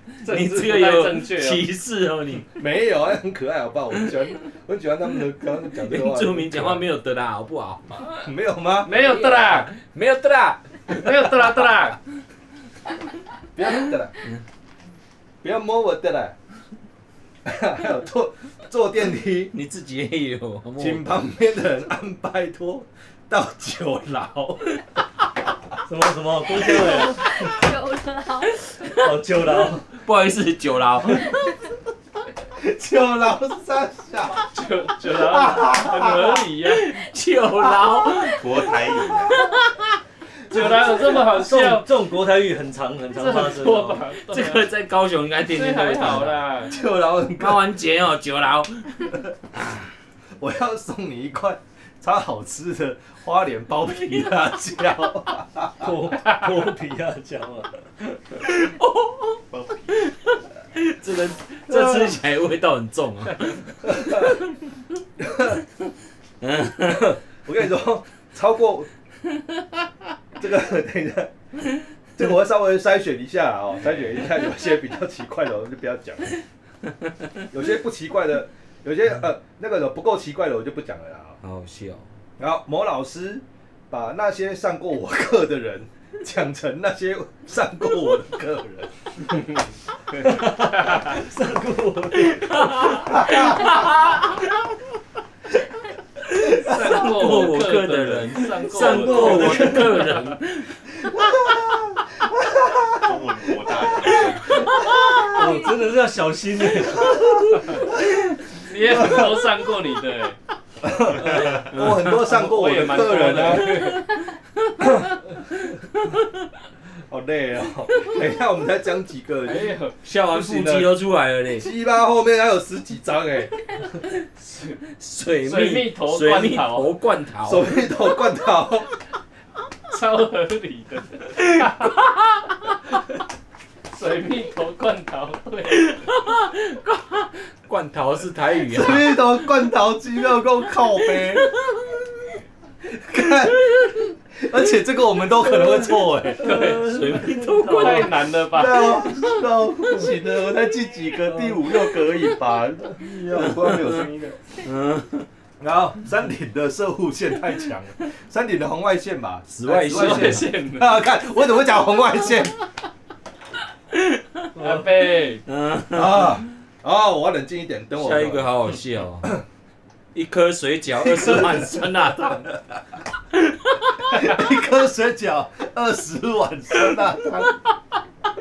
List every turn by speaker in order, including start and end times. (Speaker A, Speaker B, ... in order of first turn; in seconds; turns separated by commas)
Speaker A: 0.2-1.6, Speaker B: 0.2-2.5, Speaker C: 2.5-6.8, Speaker B: 5.8-8.1, Speaker C: 8.2-8.9, Speaker A: 8.8-9.7, Speaker B: 8.9-11.3, Speaker A: 10.9-12.0, Speaker C: 13.5-14.1, Speaker C: 15.4-16.3, Speaker C: 17.4-19.5, Speaker B: 19.5-21.1, Speaker C: 20.8-24.8, Speaker D: 25.9-27.5, Speaker E: 26.7-28.7, Speaker D: 28.9-29.9, Speaker B: 29.9-31.4, Speaker C: 32.5-34.5, Speaker A: 34.5-36.9, Speaker C: 35.0-36.3, Speaker B: 36.6-38.7, Speaker F: 38.3-39.4, Speaker B: 39.3-39.5, Speaker C: 40.5-41.1, Speaker A: 40.5-41.9, Speaker D: 40.5-44.0, Speaker A: 43.1-44.6, Speaker B: 44.3-46.5, Speaker A: 45.5-46.8, Speaker C: 46.7-47.7, Speaker B: 47.4-49.1, Speaker C: 50.4-55.9, Speaker D: 55.8-57.9, Speaker B: 58.4-59.4, Speaker F: 59.5-60.0, Speaker B: 60.0-64.3, Speaker C: 61.7-62.1, Speaker C: 63.9-64.3, Speaker C: 65.2-65.6, Speaker B: 66.4-67.1, Speaker C: 66.9-68.9, Speaker C: 70.4-71.3, Speaker C: 72.2-76.4, Speaker C: 77.5-81.4, Speaker B: 81.4-82.1, Speaker C: 82.4-89.3, Speaker D: 90.2-93.0, Speaker B: 92.3-94.3, Speaker C: 93.0-93.8, Speaker B: 96.3-100.8, Speaker A: 96.4-100.3, Speaker D: 98.7-100.1, Speaker C: 101.0-103.1, Speaker F: 102.9-104.7, Speaker E: 105.0-105.8, Speaker C: 105.0-105.3, Speaker D: 105.3-107.2, Speaker A: 108.6-110.4, Speaker C: 108.9-109.3, Speaker C: 110.8-113.9, Speaker B: 111.4-112.2, Speaker A: 112.1-114.0, Speaker C: 114.8-115.1, Speaker C: 117.1-119.8, Speaker A: 119.5-120.0, Speaker B: 120.0-121.7, Speaker C: 120.3-120.9, Speaker C: 121.5-123.5, Speaker A: 124.5-124.8, Speaker B: 124.9-127.7, Speaker A: 125.4-126.9, Speaker C: 127.4-128.9, Speaker A: 129.9-131.9, Speaker B: 131.4-132.4, Speaker A: 133.9-135.9, Speaker B: 135.7-139.2, Speaker C: 138.7-141.5, Speaker C: 142.8-146.5, Speaker A: 146.4-147.0, Speaker D: 146.4-148.1, Speaker B: 146.5-148.1, Speaker A: 147.7-149.1, Speaker C: 148.5-154.4, Speaker B: 153.0-154.1, Speaker B: 154.6-155.3, Speaker C: 155.6-162.6, Speaker B: 159.5-160.5, Speaker A: 159.9-161.0, Speaker B: 163.9-164.5, Speaker A: 164.6-165.4, Speaker B: 165.4-166.4, Speaker C: 165.9-168.5, Speaker B: 168.0-169.3, Speaker B: 170.1-172.5, Speaker C: 170.9-172.8, Speaker C: 174.0-177.6